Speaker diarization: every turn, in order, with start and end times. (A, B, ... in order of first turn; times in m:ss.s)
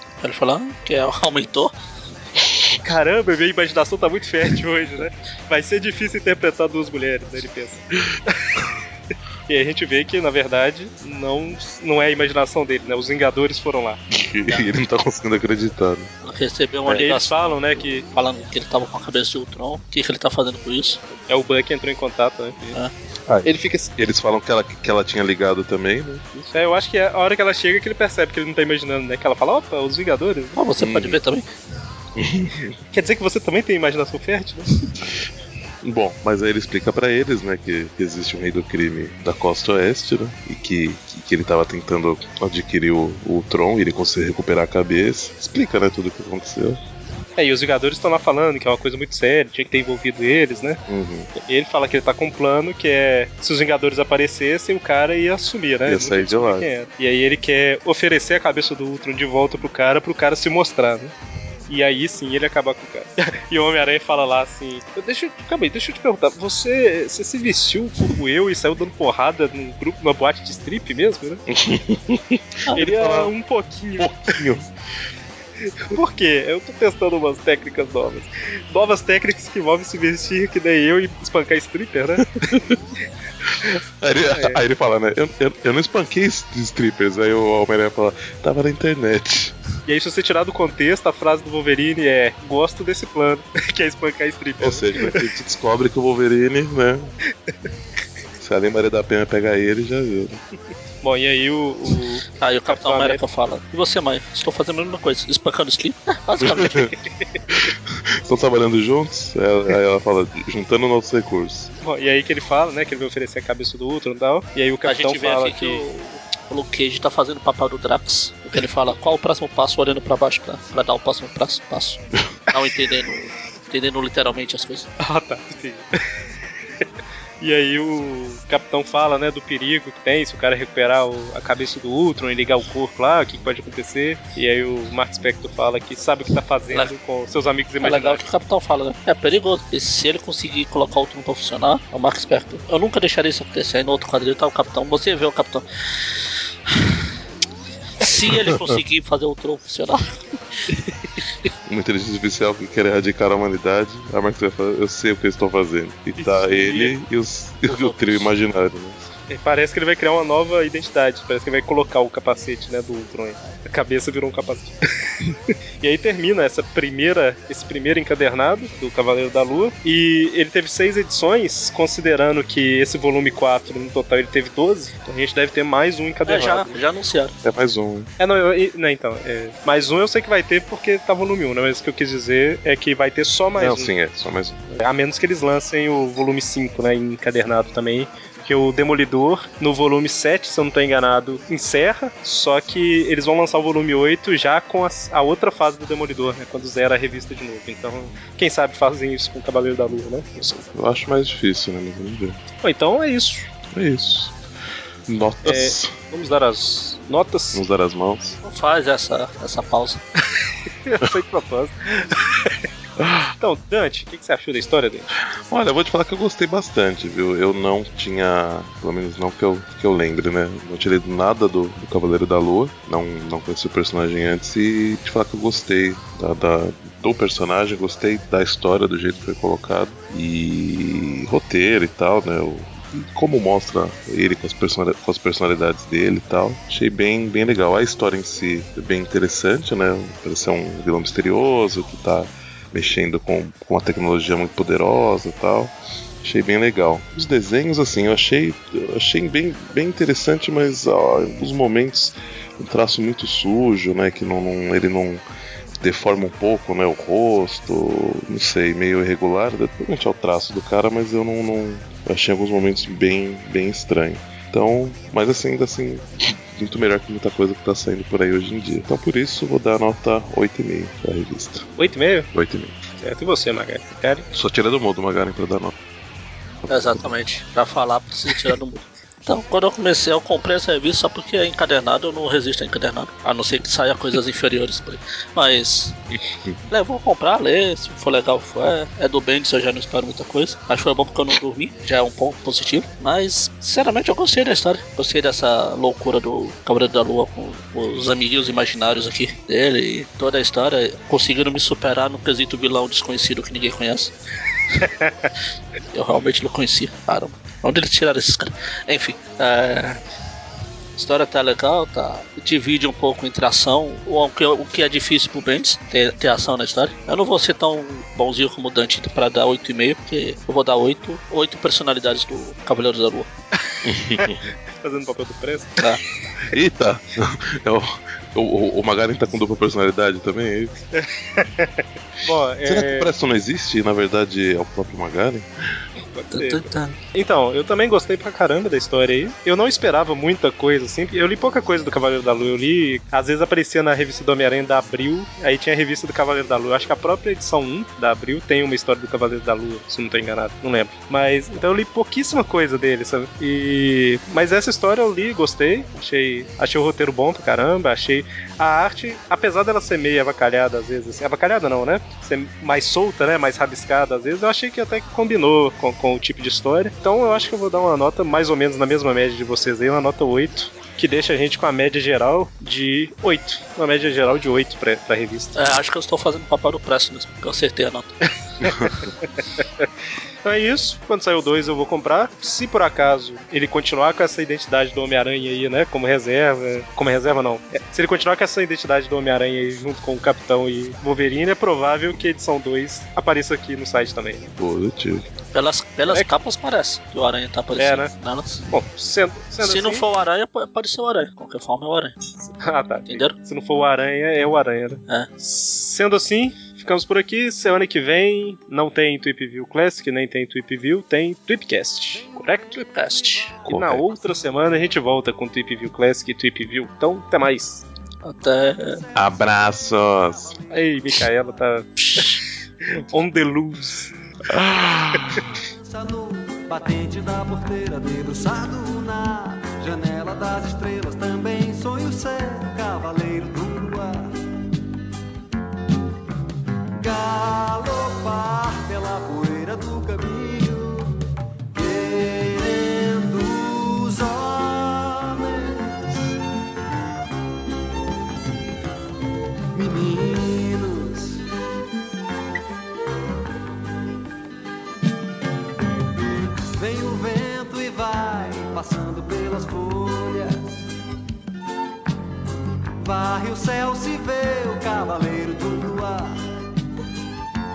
0:00.2-0:01.8 A
0:02.8-0:08.7 B
0:09.5-0:14.0 B
0:14.1-0:16.1 C
0:16.2-0:21.0 A
0:16.9-0:18.1 B
0:21.3-0:22.8 B
0:23.3-0:26.3 C
0:23.4-0:23.9 B
0:26.4-0:30.6 B
0:30.6-0:31.5 A
0:30.8-0:31.2 C
0:32.2-0:32.8 C
0:32.9-0:34.8 B
0:35.8-0:46.8 C
0:47.4-0:50.8 B
0:50.9-0:51.3 C
0:51.4-1:01.1 B
0:55.9-0:56.7 C
1:01.7-1:11.4 B
1:11.5-1:13.3 C
1:12.7-1:14.4 B
1:14.0-1:14.7 C
1:15.9-1:22.7 B
1:23.5-1:29.6 C
1:24.3-1:24.6 B
1:29.9-1:35.2 B
1:34.6-1:37.1 C
1:38.4-1:40.4 C
1:41.0-1:43.2 B
1:42.4-1:46.9 A
1:46.4-1:46.9 C
1:47.5-1:51.7 C
1:51.8-1:55.8 B
1:54.8-2:04.9 A
2:05.0-2:05.9 B
2:07.4-2:18.2 B
2:17.8-2:27.1 A
2:28.0-2:30.7 A
2:28.3-2:28.8 C
2:31.7-2:39.1 C
2:36.2-2:36.9 B
2:37.7-2:38.3 A
2:39.3-2:44.8 B
2:45.8-2:56.8 B
2:56.3-2:57.3 A
2:57.4-2:58.1 C
2:58.2-3:03.9 B
3:03.6-3:04.6 C
3:04.7-3:20.7 B
3:20.7-3:22.4 C
3:22.6-3:23.5 B
3:23.7-3:24.4 C
3:25.1-3:25.9 C
3:25.4-3:27.6 B
3:27.5-3:28.4 C
3:28.4-3:30.0 A
3:30.4-3:32.6 B
3:33.0-3:33.3 C
3:33.4-3:35.1 B
3:35.5-4:15.2 C
4:15.8-4:31.7 C
4:31.8-4:32.3 B
4:32.3-4:32.8 C
4:33.0-4:34.3 B
4:34.3-4:35.7 C
4:36.7-4:37.0 C
4:36.7-4:46.1 A
4:46.7-5:04.1 A
5:04.8-5:05.3 B
5:05.9-5:10.0 A
5:11.0-5:23.3 A
5:23.7-5:25.8 B
5:23.8-5:24.5 C
5:26.5-5:30.8 C
5:31.0-5:33.1 B
5:32.6-5:35.5 C
5:36.1-6:15.7 B
5:36.3-5:37.0 A
6:15.6-6:18.2 A
6:18.6-6:19.1 B
6:19.6-6:19.8 B
6:20.4-6:34.6 B
6:34.6-6:35.3 C
6:35.5-6:38.7 A
6:37.8-6:38.1 B
6:38.7-6:40.0 B
6:39.6-6:42.2 A
6:42.4-6:52.9 B
6:43.1-6:43.3 A
6:52.9-6:53.6 A
6:53.6-6:54.0 C
6:53.7-6:57.8 B
6:58.2-6:59.0 A
6:59.2-7:00.6 C
7:00.7-7:04.1 B
7:02.0-7:02.4 A
7:04.5-7:05.5 C
7:05.8-7:14.4 D
7:17.0-7:26.4 D
7:29.8-7:31.5 D
7:36.8-7:40.8 D
7:43.0-7:46.5 D